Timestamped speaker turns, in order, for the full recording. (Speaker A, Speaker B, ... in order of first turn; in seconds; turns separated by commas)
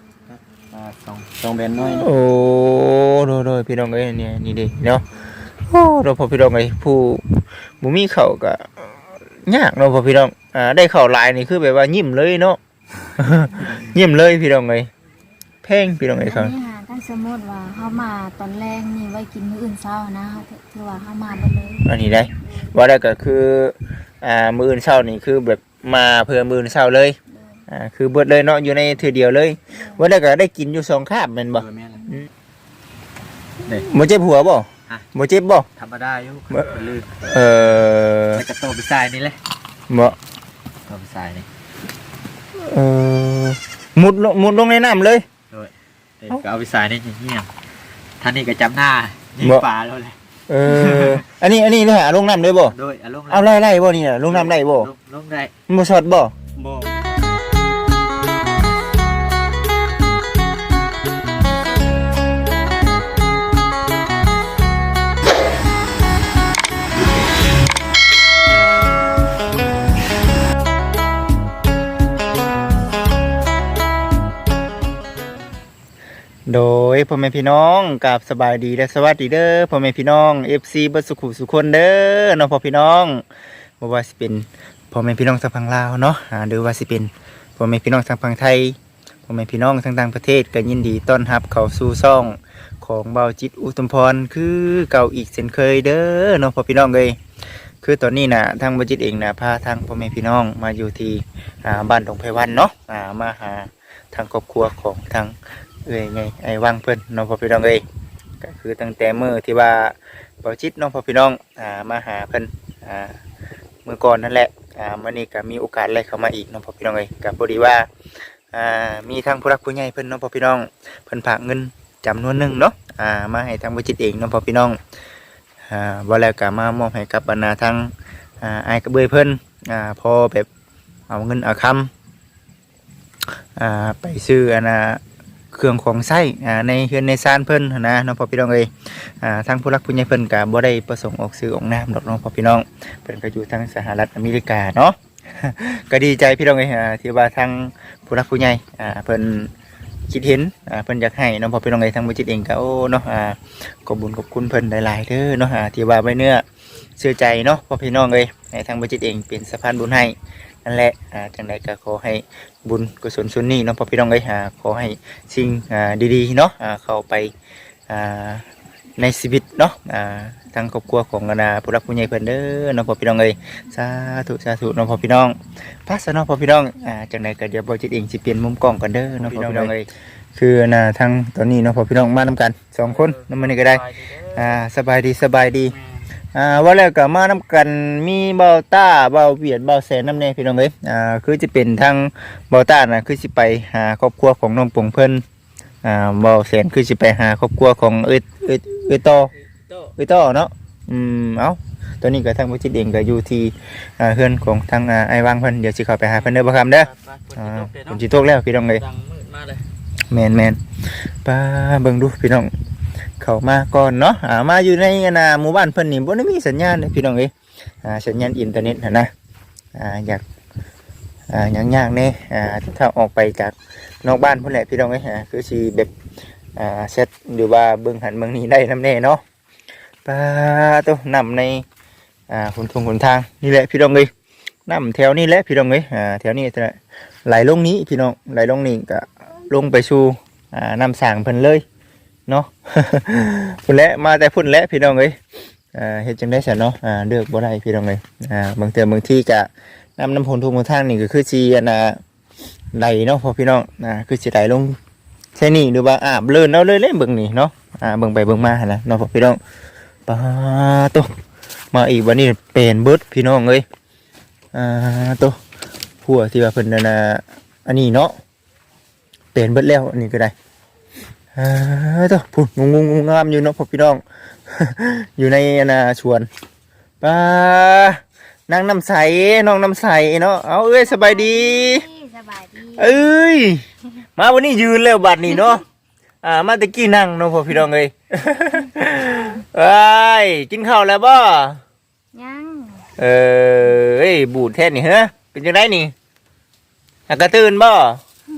Speaker A: 0.3-2.1, Speaker B: 1.9-5.0, Speaker B: 5.7-8.9, Speaker B: 9.4-12.6, Speaker B: 13.2-14.9, Speaker B: 15.6-16.5, Speaker C: 16.2-21.9, Speaker B: 21.8-27.2, Speaker C: 27.3-27.6, Speaker B: 27.7-31.6, Speaker A: 31.5-32.2, Speaker B: 33.8-35.7, Speaker A: 35.8-37.2, Speaker B: 37.2-38.4, Speaker A: 38.3-39.4, Speaker B: 39.9-40.2, Speaker A: 40.9-41.5, Speaker B: 42.6-45.2, Speaker A: 45.5-47.5, Speaker A: 48.2-51.2, Speaker B: 50.5-52.7, Speaker A: 52.7-53.5, Speaker B: 53.3-54.9, Speaker A: 54.3-55.5, Speaker B: 55.7-56.3, Speaker A: 56.5-57.4, Speaker B: 76.5-83.2, Speaker B: 83.8-97.2, Speaker B: 97.8-107.8, Speaker B: 108.4-113.2, Speaker B: 113.8-117.9, Speaker B: 118.5-124.8, Speaker B: 125.7-130.5, Speaker B: 131.1-131.9, Speaker B: 133.6-135.0, Speaker B: 135.5-149.5, Speaker B: 150.1-156.4, Speaker B: 157.0-167.3, Speaker B: 167.9-168.4, Speaker B: 169.0-185.8, Speaker A: 179.1-179.7, Speaker A: 182.9-184.4, Speaker B: 186.3-195.2, Speaker B: 195.8-199.3, Speaker B: 199.9-208.9, Speaker A: 206.9-208.0, Speaker A: 208.9-209.6, Speaker B: 210.1-212.5, Speaker B: 213.2-217.3, Speaker B: 217.8-219.1, Speaker B: 219.7-220.2, Speaker B: 221.3-225.9, Speaker B: 226.6-229.2, Speaker B: 230.0-231.6, Speaker B: 232.3-234.1, Speaker B: 234.7-241.6, Speaker B: 242.3-245.2, Speaker B: 245.7-252.0, Speaker B: 252.7-254.8, Speaker B: 255.3-259.4, Speaker B: 260.1-261.1, Speaker B: 261.7-263.6, Speaker B: 264.5-265.4, Speaker B: 266.0-268.1, Speaker B: 269.3-270.3, Speaker B: 271.3-276.3, Speaker B: 277.0-281.9, Speaker C: 280.8-283.0, Speaker B: 282.8-283.6, Speaker B: 284.2-285.6, Speaker B: 286.2-291.6, Speaker C: 292.1-292.9, Speaker B: 293.0-295.9, Speaker B: 297.1-298.0